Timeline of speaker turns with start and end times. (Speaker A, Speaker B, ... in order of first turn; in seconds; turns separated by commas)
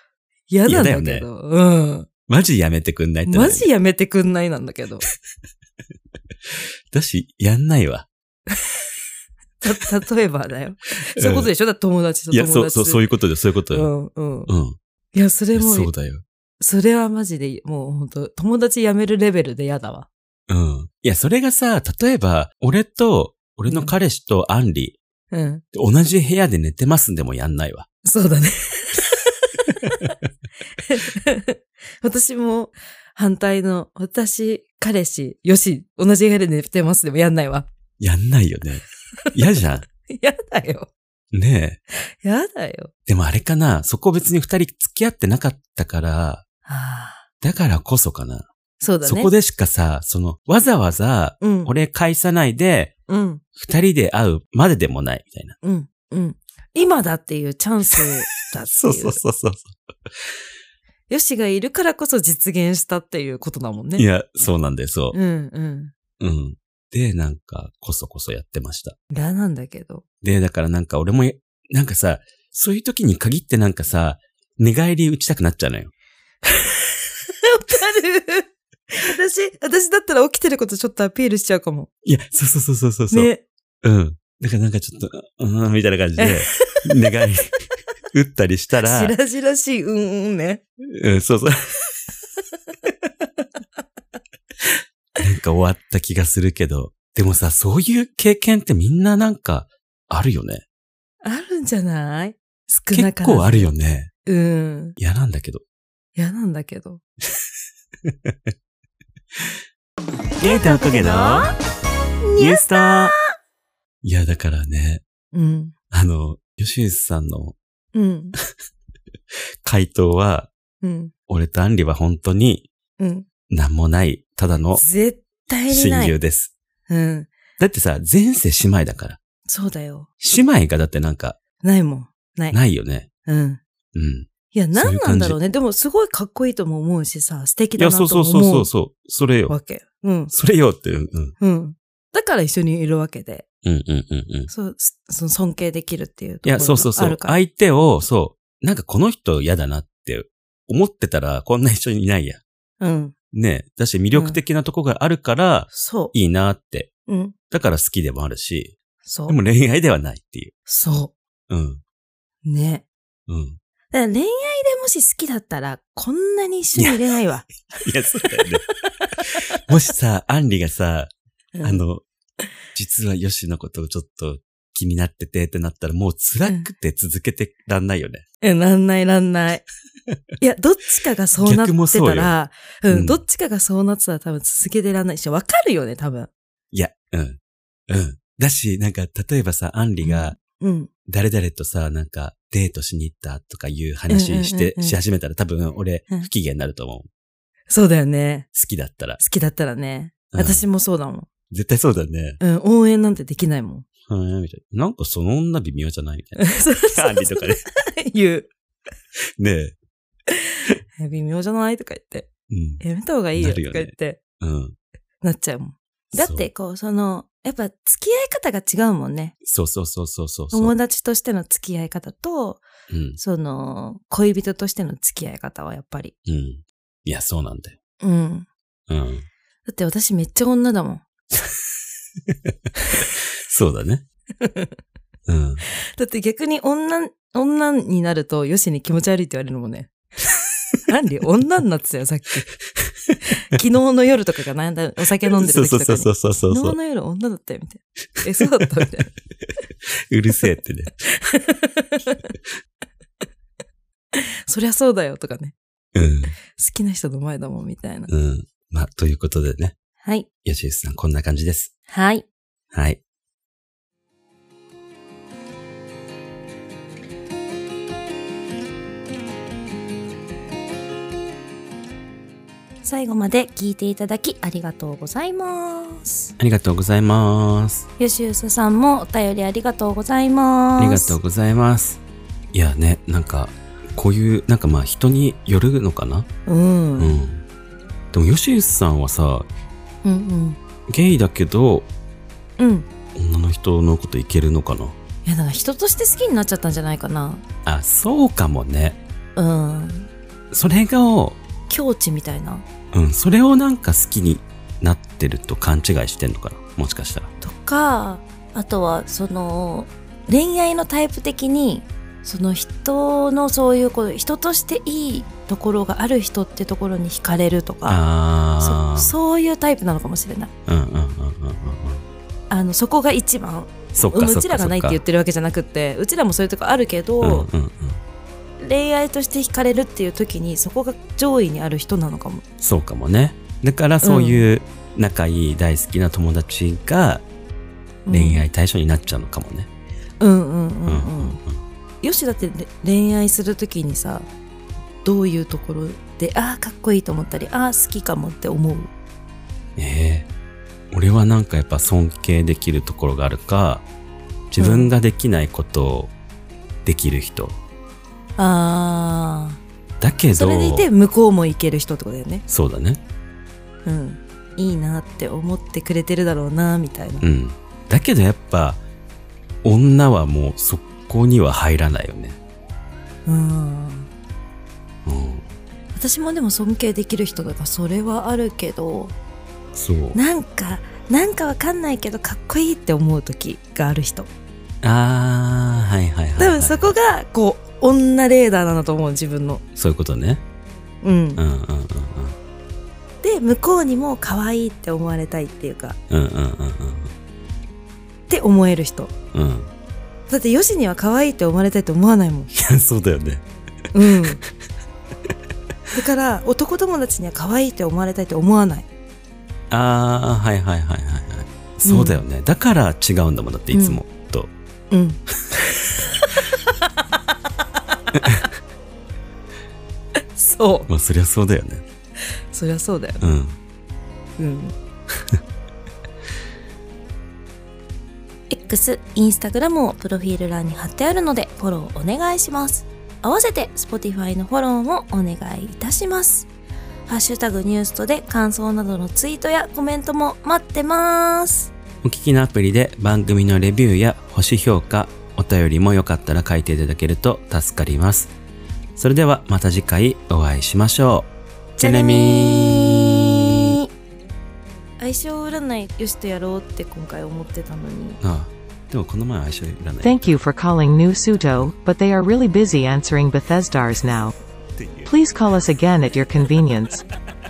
Speaker A: 0.5-2.1, Speaker B: 0.7-1.3, Speaker B: 2.3-3.7, Speaker A: 3.2-5.0, Speaker B: 6.5-8.1, Speaker A: 9.6-13.1, Speaker B: 11.0-11.5, Speaker B: 12.3-13.9, Speaker A: 13.7-14.5, Speaker B: 14.5-14.8, Speaker A: 15.1-15.9, Speaker B: 15.5-16.2, Speaker A: 16.6-20.1, Speaker B: 20.5-25.0, Speaker A: 23.7-23.9, Speaker A: 25.3-25.6, Speaker B: 25.7-27.9, Speaker A: 28.0-30.1, Speaker A: 30.8-37.7, Speaker B: 38.0-39.9, Speaker A: 40.0-40.9, Speaker B: 41.3-41.8, Speaker A: 42.2-42.9, Speaker B: 43.1-46.4, Speaker A: 46.6-47.2, Speaker B: 47.4-48.5, Speaker A: 48.8-49.3, Speaker B: 49.0-52.9, Speaker A: 51.4-51.7, Speaker A: 53.1-53.4, Speaker B: 53.5-55.5, Speaker A: 55.6-59.2, Speaker B: 58.7-59.8, Speaker A: 61.1-64.0, Speaker B: 64.0-65.2, Speaker A: 65.1-65.9, Speaker B: 66.2-69.0, Speaker A: 69.1-70.0, Speaker B: 70.2-75.9, Speaker A: 76.5-76.8, Speaker A: 77.4-81.9, Speaker B: 82.0-83.3, Speaker A: 83.1-83.4, Speaker B: 83.8-87.5, Speaker A: 86.2-86.9, Speaker B: 88.1-89.1, Speaker A: 88.8-90.6, Speaker B: 90.9-91.6, Speaker B: 94.6-100.6, Speaker A: 101.2-103.7, Speaker B: 102.9-104.1, Speaker A: 104.2-105.0, Speaker B: 105.0-105.6, Speaker A: 106.2-107.0, Speaker B: 108.0-108.5, Speaker B: 110.4-111.5, Speaker A: 110.4-111.5, Speaker A: 112.2-113.1, Speaker B: 112.4-113.1, Speaker B: 114.0-115.0, Speaker A: 115.3-115.7, Speaker B: 115.9-117.5, Speaker A: 117.9-118.3, Speaker B: 119.6-120.5, Speaker A: 120.8-121.1, Speaker B: 121.3-122.7, Speaker A: 123.0-123.2, Speaker B: 123.5-124.8, Speaker A: 124.7-126.2, Speaker B: 125.7-126.5, Speaker A: 126.9-127.3, Speaker B: 127.6-129.2, Speaker A: 129.5-130.1, Speaker B: 130.2-131.4, Speaker A: 131.6-132.6, Speaker B: 132.5-133.1, Speaker A: 133.2-133.6, Speaker B: 133.9-135.4, Speaker A: 134.5-138.7, Speaker B: 137.8-139.5, Speaker A: 139.5-140.3, Speaker B: 140.3-141.3, Speaker A: 141.4-143.4, Speaker B: 143.6-144.5, Speaker A: 144.5-147.4, Speaker B: 146.4-152.4, Speaker A: 152.8-153.1, Speaker B: 153.3-156.9, Speaker A: 154.1-154.4, Speaker A: 155.7-156.1, Speaker A: 157.1-157.3, Speaker B: 157.5-158.7, Speaker A: 159.0-159.4, Speaker B: 159.3-160.5, Speaker A: 160.7-161.1, Speaker B: 161.5-161.8, Speaker A: 162.4-162.8, Speaker B: 163.3-163.6, Speaker A: 163.9-167.5, Speaker B: 167.8-168.6, Speaker B: 169.6-171.1, Speaker A: 171.5-171.8, Speaker B: 171.6-172.0, Speaker B: 172.7-178.2, Speaker A: 178.4-179.6, Speaker A: 180.4-186.3, Speaker B: 181.4-182.3, Speaker B: 182.9-183.2, Speaker B: 186.7-190.3, Speaker A: 190.0-190.9, Speaker B: 191.1-197.1, Speaker A: 194.1-195.0, Speaker A: 197.7-198.5, Speaker B: 198.5-199.2, Speaker A: 199.2-201.3, Speaker B: 200.3-200.6, Speaker B: 201.5-202.4, Speaker A: 202.4-203.8, Speaker B: 204.1-207.6, Speaker A: 206.4-208.5, Speaker B: 209.4-209.8, Speaker A: 211.0-212.3, Speaker B: 212.5-212.8, Speaker A: 212.8-214.2, Speaker B: 213.4-214.8, Speaker A: 215.2-219.3, Speaker B: 216.1-216.5, Speaker B: 219.4-220.7, Speaker A: 220.5-222.7, Speaker B: 222.9-223.2, Speaker A: 223.2-226.1, Speaker B: 226.2-227.8, Speaker A: 228.0-228.5, Speaker B: 228.9-229.3, Speaker A: 229.7-231.0, Speaker B: 232.3-234.0, Speaker A: 234.4-234.7, Speaker B: 235.3-235.6, Speaker A: 236.0-239.9, Speaker A: 240.8-242.5, Speaker A: 243.4-249.1, Speaker B: 245.3-246.8, Speaker B: 250.1-251.0, Speaker A: 251.1-252.2, Speaker A: 254.1-255.5, Speaker B: 255.9-256.4, Speaker A: 256.5-258.1, Speaker B: 258.1-259.7, Speaker A: 260.0-260.3, Speaker B: 260.4-261.7, Speaker A: 261.9-262.2, Speaker B: 262.7-263.0, Speaker A: 272.8-276.3, Speaker B: 276.4-277.9, Speaker A: 278.0-281.2, Speaker B: 280.8-282.0, Speaker B: 282.5-286.3, Speaker A: 286.4-287.1, Speaker B: 287.0-287.4, Speaker B: 288.1-289.5, Speaker A: 290.0-290.6, Speaker B: 290.9-291.9, Speaker A: 292.6-292.9, Speaker B: 293.1-295.0, Speaker A: 295.2-297.4, Speaker B: 297.6-299.0, Speaker A: 299.4-300.1, Speaker B: 300.5-301.4, Speaker A: 301.7-302.6, Speaker B: 302.9-307.3, Speaker A: 307.4-318.0, Speaker B: 317.8-319.1, Speaker A: 318.6-320.5, Speaker B: 320.7-322.0, Speaker A: 322.5-327.5, Speaker B: 323.9-325.0, Speaker B: 327.2-328.0, Speaker A: 328.6-332.4, Speaker B: 332.6-337.2, Speaker A: 334.0-334.4, Speaker A: 338.1-338.4, Speaker B: 338.1-339.7, Speaker A: 340.2-341.4, Speaker B: 340.9-341.6, Speaker A: 342.0-344.3, Speaker A: 345.0-348.9, Speaker B: 349.8-350.3, Speaker B: 350.9-353.8, Speaker B: 354.5-356.1, Speaker A: 354.6-354.9, Speaker B: 356.8-357.6, Speaker A: 358.4-359.6, Speaker B: 360.0-360.9, Speaker A: 360.4-362.4, Speaker B: 362.5-363.0, Speaker A: 363.9-367.2, Speaker B: 367.2-368.8, Speaker B: 369.6-372.4, Speaker A: 373.2-374.1, Speaker B: 375.0-375.4, Speaker A: 375.9-379.1, Speaker B: 379.7-380.2, Speaker A: 380.1-384.3, Speaker B: 384.8-386.9, Speaker A: 386.4-389.6, Speaker B: 389.7-390.4, Speaker A: 391.0-391.4, Speaker B: 391.4-392.3, Speaker A: 393.2-396.0, Speaker B: 396.1-397.1, Speaker A: 398.3-399.1, Speaker B: 399.3-399.7, Speaker A: 400.3-402.5, Speaker B: 402.5-403.4, Speaker A: 403.9-404.4, Speaker A: 405.9-408.9, Speaker B: 409.7-414.5, Speaker A: 411.9-412.2, Speaker A: 413.7-414.0, Speaker A: 414.9-415.2, Speaker B: 418.1-418.5, Speaker A: 420.3-420.9, Speaker B: 420.9-421.8, Speaker A: 422.5-423.2, Speaker B: 423.2-423.6, Speaker A: 424.4-424.7, Speaker A: 428.5-436.5, Speaker A: 437.1-441.7, Speaker B: 442.0-448.3, Speaker B: 448.9-453.7, Speaker A: 451.8-453.9, Speaker A: 455.0-458.2, Speaker B: 458.2-460.3, Speaker C: 460.0-464.3, Speaker B: 464.8-465.1, Speaker C: 465.1-467.1